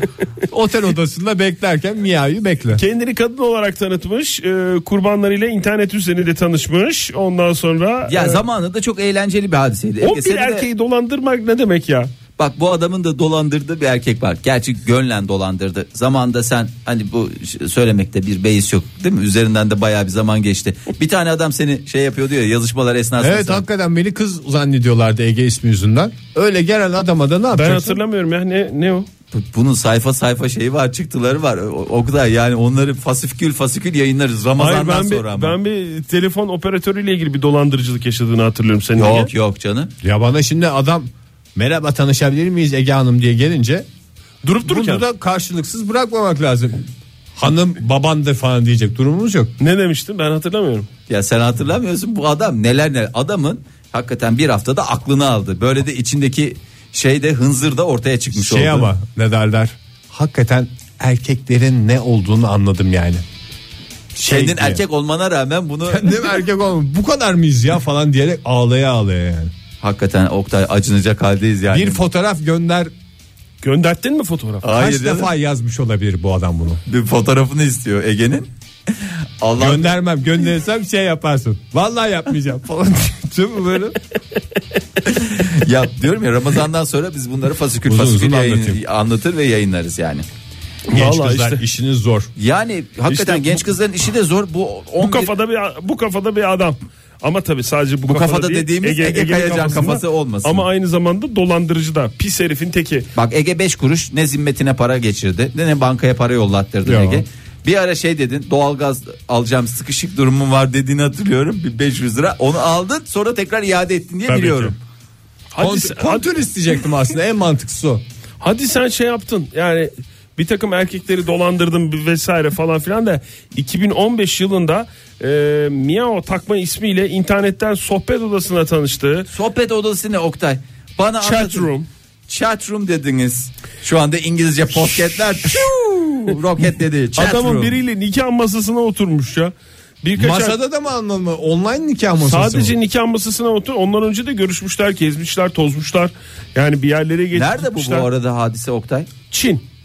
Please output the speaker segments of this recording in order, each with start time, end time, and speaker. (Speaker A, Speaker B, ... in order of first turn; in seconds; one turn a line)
Speaker A: 0.5-2.8
Speaker B: 2.8-8.4
Speaker C: 8.1-10.7
Speaker B: 10.0-12.1
Speaker C: 12.4-23.6
Speaker A: 23.2-28.0
Speaker B: 27.5-29.1
Speaker C: 29.3-35.6
Speaker B: 34.6-39.3
Speaker C: 39.0-39.9
Speaker A: 40.0-43.9
Speaker B: 44.4-45.0
Speaker A: 44.6-49.5
Speaker B: 49.6-50.9
Speaker C: 51.1-58.9
Speaker A: 58.3-63.2
Speaker A: 64.2-64.8
Speaker C: 64.3-66.3
Speaker A: 65.9-69.5
Speaker C: 69.8-72.0
Speaker A: 71.7-72.9
Speaker B: 73.6-74.6
Speaker C: 74.6-75.3
Speaker A: 74.7-76.8
Speaker C: 76.9-78.5
Speaker C: 79.4-79.9
Speaker A: 79.6-84.0
Speaker C: 85.1-90.3
Speaker A: 87.9-88.8
Speaker B: 90.9-91.6
Speaker A: 90.9-92.3
Speaker C: 92.4-95.3
Speaker B: 93.1-93.6
Speaker B: 95.0-103.1
Speaker C: 98.1-100.7
Speaker C: 103.2-114.8
Speaker A: 106.8-107.2
Speaker A: 114.3-114.8
Speaker B: 115.5-116.2
Speaker A: 115.6-118.0
Speaker B: 118.4-129.3
Speaker C: 129.3-131.7
Speaker B: 131.2-131.9
Speaker C: 132.3-137.8
Speaker B: 137.2-140.6
Speaker A: 140.2-142.7
Speaker B: 142.2-148.1
Speaker C: 147.3-149.1
Speaker B: 149.3-149.6